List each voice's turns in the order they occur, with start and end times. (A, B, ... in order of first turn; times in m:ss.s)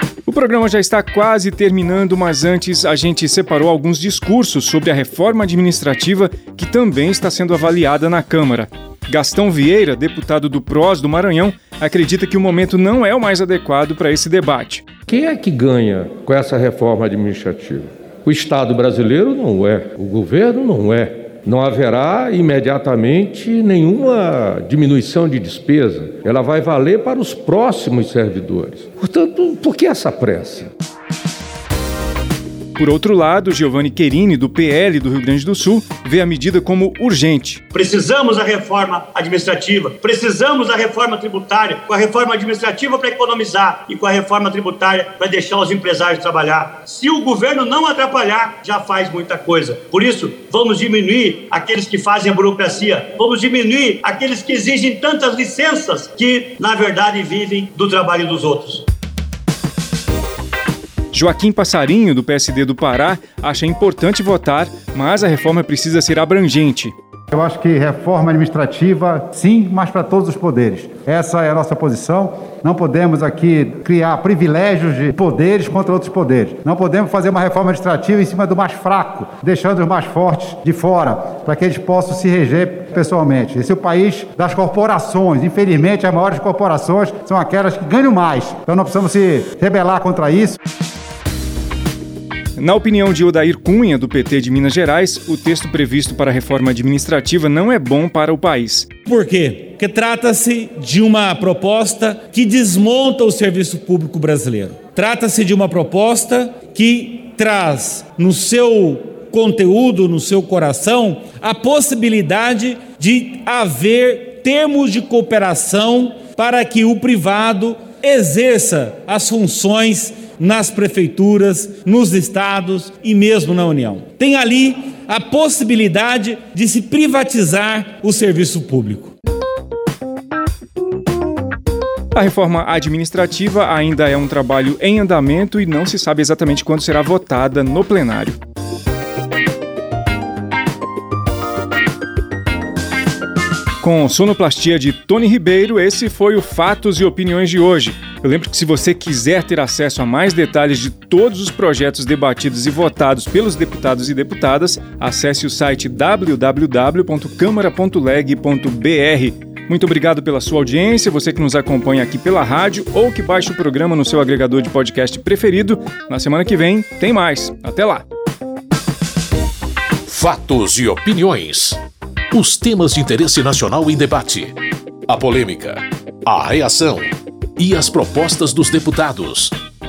0:00.2-0:14.8 A
0:15.1-0:30.7 B
0:32.8-0:37.6 A
0:37.7-0:58.8 C
1:01.1-1:06.9 A
1:07.3-1:30.6 D
1:32.6-1:38.9 A
1:39.0-2:09.1 E
2:12.1-2:18.4 A
2:23.8-2:48.0 A
2:50.1-2:51.8 F
2:52.3-2:54.6 F
2:55.1-2:59.6 F